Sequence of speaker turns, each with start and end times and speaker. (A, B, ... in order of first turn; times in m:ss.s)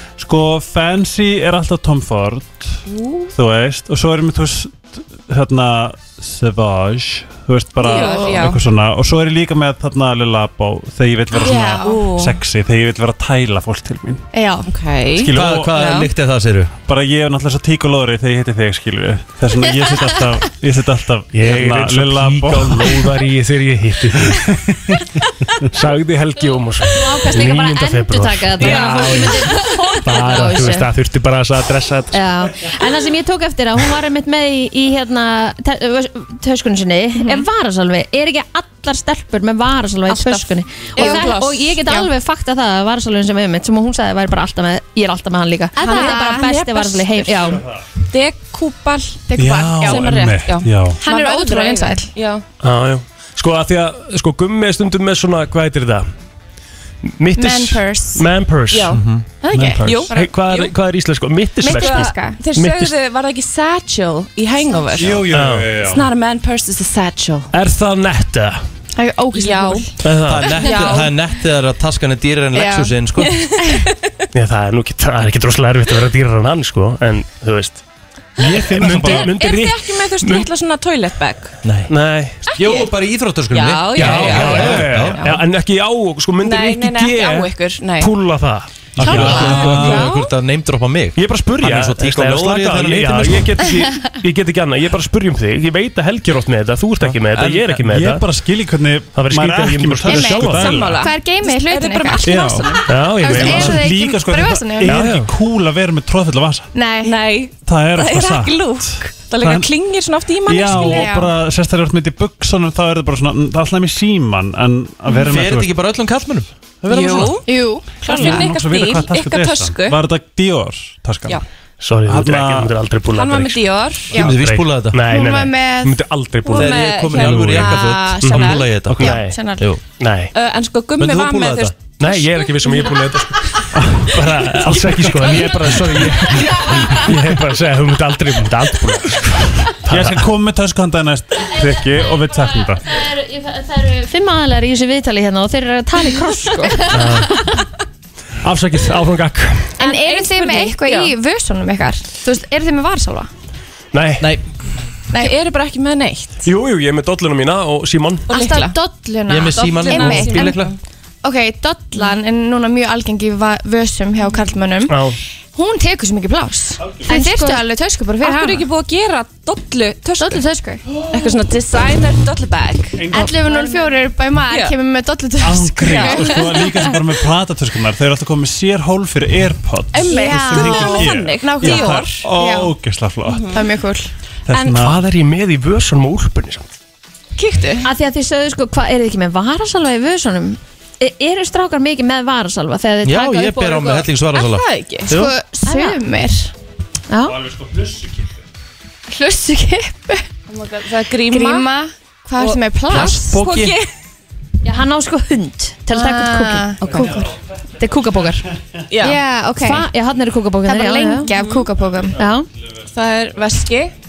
0:00.2-0:02.8 A
0:02.9-0:03.3 B
0:03.3-0:14.3 A
0:07.8-0:08.6 B
0:07.8-0:08.5 C
0:11.4-0:12.4 B
0:11.4-0:12.0 C
0:14.3-0:14.7 C
0:14.7-0:16.1 B
0:15.2-0:15.8 A
0:15.3-0:16.7 D
0:16.9-0:23.1 A
0:19.6-0:20.3 C
0:21.3-0:24.5 E
0:24.1-0:25.1 A
0:25.7-0:32.2 E
0:27.0-0:30.9 F
0:28.6-0:29.4 B
0:32.1-0:47.6 F
0:37.2-0:37.4 C
0:40.1-0:41.8 B
0:41.0-0:42.1 C
0:45.8-0:46.5 C
0:45.8-0:47.5 B
0:48.1-0:49.2 B
0:49.3-0:50.4 C
0:49.4-0:51.0 A
0:49.8-0:52.4 B
0:51.0-0:52.1 C
0:52.6-0:56.1 E
0:57.1-0:59.0 E
0:57.3-0:58.3 C
0:58.7-0:59.0 B
0:58.9-1:00.1 A
0:59.4-1:00.3 C
0:59.6-1:00.7 B
1:00.1-1:02.9 E
1:01.6-1:02.4 C
1:01.6-1:07.5 B
1:04.7-1:05.1 C
1:05.0-1:06.1 A
1:05.3-1:05.8 E
1:07.5-1:08.6 E
1:09.0-1:10.0 C
1:09.3-1:09.9 B
1:10.0-1:10.6 E
1:10.2-1:13.5 D
1:10.6-1:11.1 B
1:10.6-1:10.9 C
1:12.5-1:13.0 C
1:13.2-1:13.9 B
1:14.3-1:17.8 E
1:18.4-1:19.4 A
1:18.7-1:20.5 E
1:18.9-1:21.6 B
1:21.6-1:21.9 D
1:21.9-1:22.4 E
1:22.5-1:25.2 D
1:22.5-1:22.9 B
1:23.5-1:25.4 B
1:24.0-1:29.5 E
1:26.4-1:28.1 B
1:29.0-1:30.1 A
1:29.0-1:33.6 D
1:29.0-1:30.3 B
1:31.2-1:38.3 E
1:37.3-1:37.8 D
1:37.8-1:41.1 A
1:39.2-1:40.8 E
1:40.1-1:42.7 C
1:40.1-1:43.4 B
1:42.2-1:46.7 A
1:42.9-1:43.8 E
1:43.2-1:45.0 C
1:44.8-1:45.3 E
1:46.7-1:47.2 C
1:47.0-1:51.2 B
1:47.6-1:49.7 A
1:50.5-1:55.7 A
1:50.8-1:51.3 C
1:55.2-1:57.4 D
1:56.9-2:00.0 B
1:57.5-1:58.4 C
1:58.0-2:01.4 A
2:01.8-2:03.6 E
2:02.1-2:02.7 A
2:03.1-2:04.2 B
2:04.1-2:05.0 D
2:04.2-2:06.8 E
2:05.1-2:06.0 C
2:06.4-2:09.0 B
2:06.5-2:09.8 D
2:07.1-2:07.8 A
2:08.2-2:09.4 E
2:09.0-2:09.7 C
2:10.0-2:10.3 E
2:10.3-2:13.2 B
2:11.0-2:11.8 D
2:12.0-2:19.9 E
2:13.8-2:15.4 A
2:16.2-2:17.0 B
2:19.9-2:22.9 A
2:21.6-2:27.2 F
2:26.6-2:27.6 C
2:26.9-2:27.3 E
2:28.4-2:29.8 E
2:29.8-2:31.2 B
2:29.8-2:33.3 C
2:33.9-2:34.3 E
2:35.1-2:35.4 C
2:35.1-2:36.5 B
2:36.4-2:38.3 E
2:38.3-2:38.8 B
2:38.3-2:40.7 C
2:39.3-2:40.8 D
2:39.5-2:40.8 B
2:41.2-2:45.0 C
2:44.9-2:45.2 E
2:45.5-2:48.7 C
2:46.8-2:47.1 A
2:47.1-2:47.6 F
2:48.2-2:50.4 B
2:50.2-2:50.8 C
2:51.1-2:54.8 B
2:53.0-2:53.4 A
2:53.1-2:57.0 C
2:55.4-3:03.5 A
2:55.8-2:56.8 B
2:59.9-3:02.2 B
3:00.1-3:02.7 C
3:03.3-3:03.7 B
3:03.5-3:04.1 C
3:04.5-3:05.0 A
3:04.6-3:06.7 E
3:07.4-3:07.9 B
3:07.8-3:14.0 F
3:13.0-3:14.6 D
3:13.9-3:15.1 B
3:15.1-3:16.5 C
3:15.6-3:16.0 F
3:17.1-3:17.4 F
3:17.6-3:18.1 A
3:19.1-3:20.2 C
3:20.5-3:21.7 B
3:21.2-3:23.4 C
3:22.4-3:23.9 B
3:22.9-3:23.7 D
3:24.6-3:27.3 F
3:25.9-3:27.3 C
3:26.8-3:27.2 B
3:27.8-3:28.5 F
3:28.9-3:29.2 B
3:29.0-3:29.9 C
3:29.6-3:31.3 F
3:30.7-3:32.2 C
3:31.3-3:31.7 B
3:32.2-3:32.5 F
3:32.9-3:33.9 B